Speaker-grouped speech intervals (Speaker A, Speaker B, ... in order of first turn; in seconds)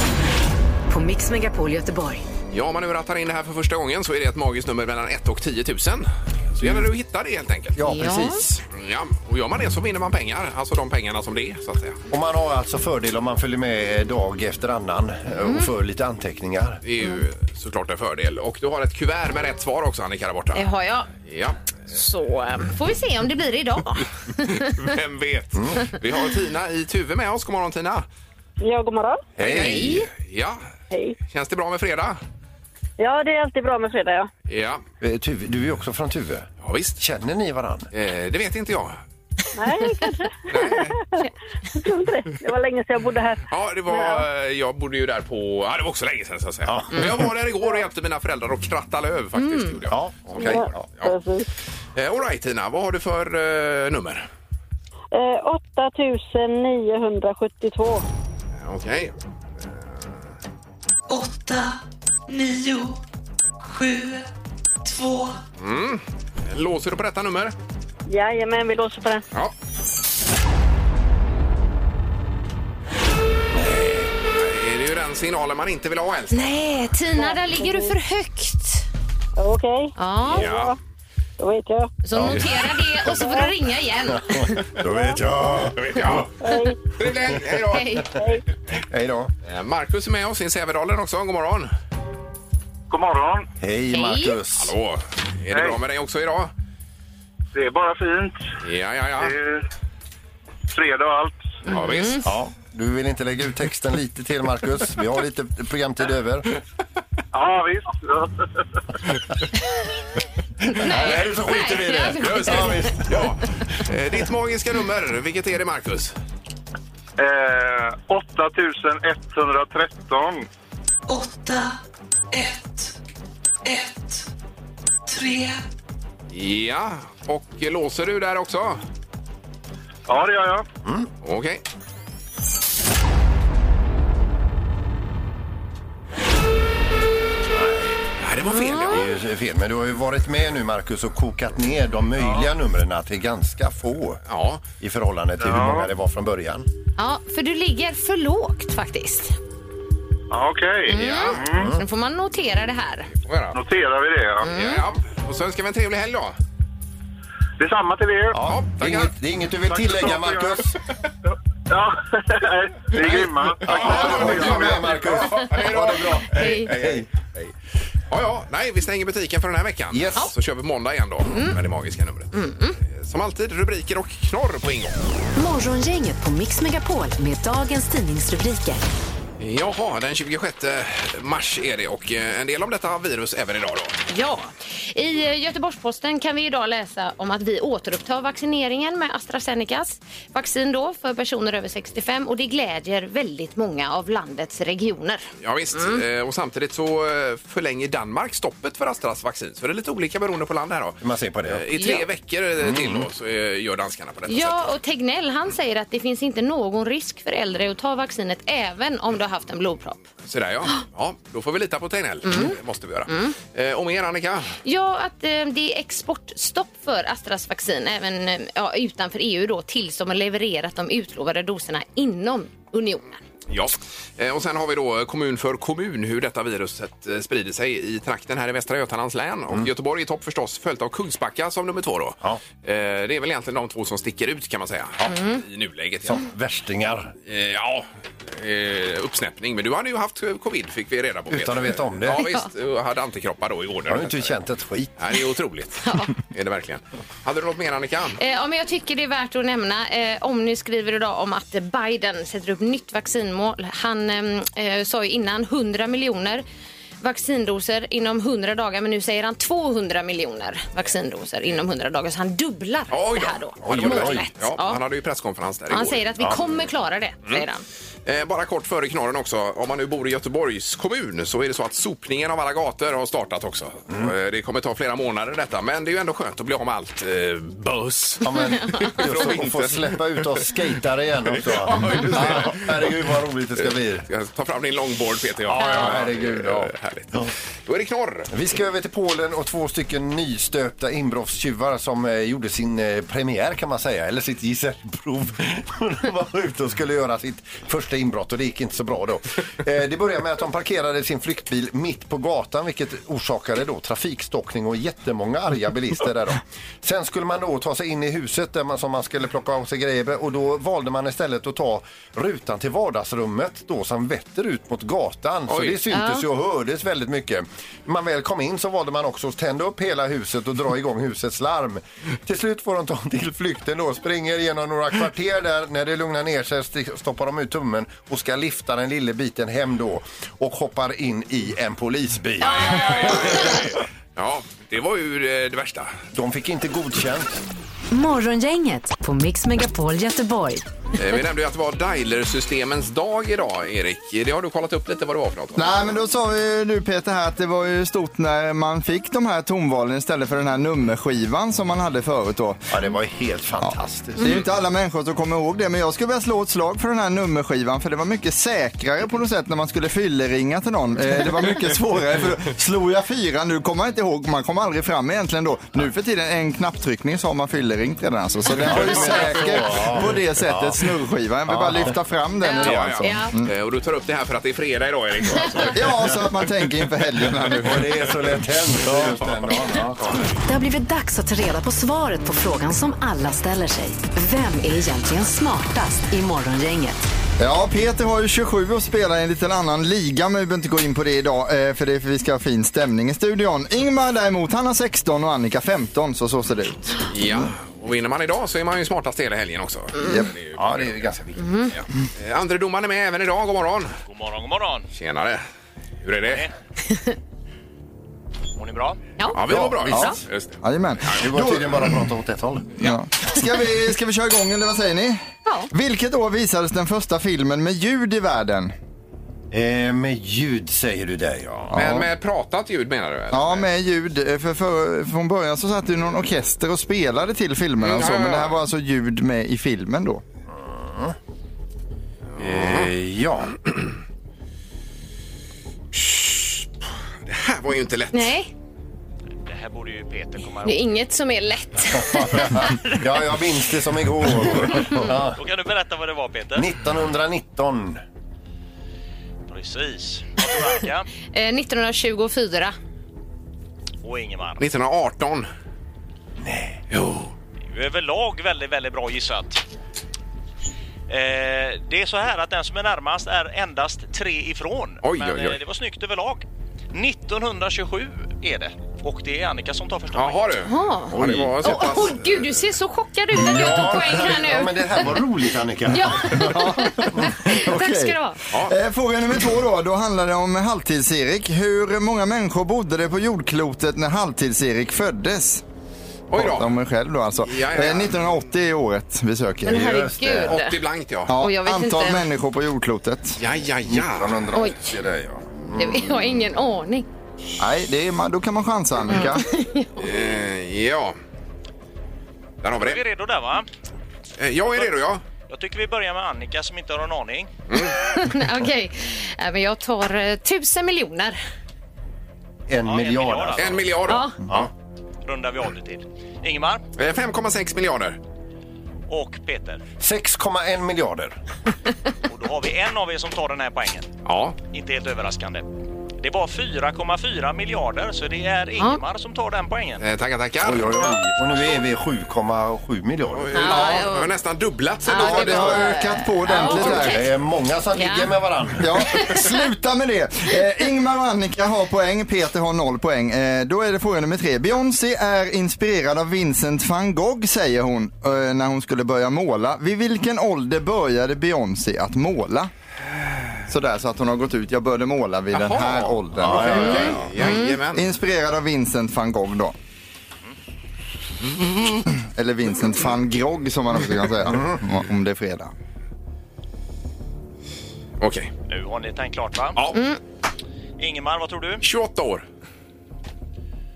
Speaker A: 0.9-2.2, 175.4-178.8, 337.9-340.6, 380.5-387.1
Speaker B: 2.5-7.8, 8.6-12.0, 16.8-20.6, 21.3-21.6, 24.5-28.1, 29.4-30.6, 31.3-32.2, 34.5-34.8, 36.6-37.0, 37.9-39.0, 40.5-41.0, 43.5-51.1, 52.0-54.3, 58.6-59.1, 65.6-67.6, 74.3-76.5, 80.2-80.8, 85.8-86.3, 87.0-88.0, 89.5-91.7, 94.6-96.5, 98.6-99.3, 101.7-102.3, 112.2-116.1, 126.3-128.8, 131.2-131.6, 138.2-139.0, 144.3-144.6, 150.9-151.4, 153.2-153.6, 154.5-156.4, 158.5-159.1, 163.6-167.5, 168.1-175.0, 179.4-184.0, 195.4-204.7, 210.2-214.6, 223.5-236.2, 237.3-244.4, 245.0-248.2, 262.9-266.0, 268.1-280.0, 281.3-282.8, 283.6-288.3, 315.5-315.8, 332.5-335.9, 341.0-345.7, 372.6-375.9, 397.1-401.1, 401.7-403.9, 404.9-405.4, 406.0-406.5, 409.3-411.2, 421.7-423.6, 427.8-428.6, 432.4-432.9, 435.9-436.7, 437.3-438.3, 454.6-455.5, 456.9-457.3, 465.0-465.6, 470.1-472.3, 486.3-486.7, 487.5-488.2, 490.4-491.3, 493.4-494.4, 500.0-501.2, 502.6-503.0, 504.4-505.2, 507.7-507.9, 513.6-514.3, 517.0-518.2, 524.2-524.6, 530.0-531.1, 533.3-535.9, 555.5-558.1, 568.2-568.5, 571.8-572.5
Speaker C: 6.6-6.9, 7.8-8.6, 12.1-16.8, 25.6-25.9, 29.4-30.1, 35.0-37.9, 46.7-47.3, 49.9-50.9, 73.5-74.1, 82.1-83.2, 84.2-86.3, 88.8-89.3, 93.6-94.7, 102.2-106.5, 110.7-113.3, 137.5-138.0, 138.9-144.2, 144.8-146.7, 151.5-151.8, 158.3-160.7, 163.0-167.1, 169.9-170.3, 201.0-201.7, 202.6-203.1, 236.1-237.1, 241.3-242.2, 243.9-244.9, 263.6-264.2, 278.2-284.1, 285.5-287.3, 288.3-333.6, 336.1-337.4, 352.7-354.4, 368.6-370.9, 371.5-371.9, 377.6-380.3, 400.6-401.4, 409.5-410.1, 411.2-412.7, 419.5-421.8, 430.5-431.1, 432.4-433.8, 442.1-445.4, 446.6-448.0, 456.4-456.8, 471.1-472.1, 473.3-477.3, 489.7-490.5, 493.9-496.1, 512.7-514.7, 520.0-521.4, 530.6-534.0, 536.5-538.9, 556.4-557.3, 564.5-564.8
Speaker D: 7.9-8.4, 15.4-15.7, 20.5-21.1, 21.9-24.8, 29.4-30.1, 49.4-49.8, 76.3-78.9, 80.0-80.5, 82.0-84.6, 87.7-88.1, 93.9-94.4, 101.7-102.3, 110.7-112.9, 138.5-139.0, 147.0-149.3, 150.9-153.1, 154.4-154.8, 166.2-166.7, 171.3-171.6, 172.3-172.8, 184.1-196.0, 201.8-202.0, 204.3-210.0, 212.3-212.6, 213.1-213.4, 214.7-223.2, 235.1-235.4, 242.2-242.5, 245.8-246.1, 248.2-256.4, 257.0-264.8, 265.7-267.6, 285.6-286.0, 315.9-316.2, 332.4-333.6, 372.4-373.3, 400.0-400.2, 401.4-401.7, 438.1-438.5, 440.6-443.0, 451.3-452.7, 470.6-475.2, 475.9-478.4, 489.7-490.8, 491.4-492.3, 494.6-494.9, 495.7-497.1, 499.1-500.1, 508.0-511.4, 514.1-514.4, 533.5-534.3, 535.1-537.3, 537.9-538.3, 557.4-557.8, 569.9-570.2
Speaker E: 28.6-29.2, 30.9-31.2, 33.0-34.3, 39.5-41.2, 41.8-44.2, 50.4-51.5, 55.1-58.0, 68.1-69.2, 77.2-78.0, 79.4-80.8, 81.4-82.0, 84.8-85.2, 86.4-86.8, 88.1-88.4
Speaker F: 61.1-63.0, 63.6-64.3, 64.8-65.4, 121.1-121.8, 122.3-122.9, 123.7-124.3, 125.1-125.6
Speaker G: 92.9-93.5, 95.5-95.8, 97.5-98.4, 99.2-99.6, 100.7-101.5, 107.3-108.3, 117.2-120.5, 130.1-130.7, 145.4-145.9, 150.3-151.7, 153.5-154.5, 157.6-158.4, 159.7-160.6, 161.7-165.1
Speaker H: 345.6-352.6, 353.6-373.5, 375.7-377.9, 387.4-397.0, 409.9-412.0, 412.8-415.2, 415.7-418.7, 421.7-422.1, 423.3-430.2, 476.4-485.6, 486.3-490.0, 491.3-493.4, 497.6-499.4, 535.1-537.2, 538.8-552.7, 553.7-559.8, 562.2-565.7
Speaker I: 404.1-404.9, 406.2-406.5, 408.6-409.0, 439.4-440.9, 445.4-446.7, 449.5-451.1, 454.0-454.6, 457.7-459.6, 461.1-470.6, 502.8-503.7, 505.5-507.5, 512.8-514.0, 515.2-516.8, 519.1-519.8, 522.3-524.1, 524.7-525.7, 526.2-530.0, 568.7-569.9, 571.0-571.8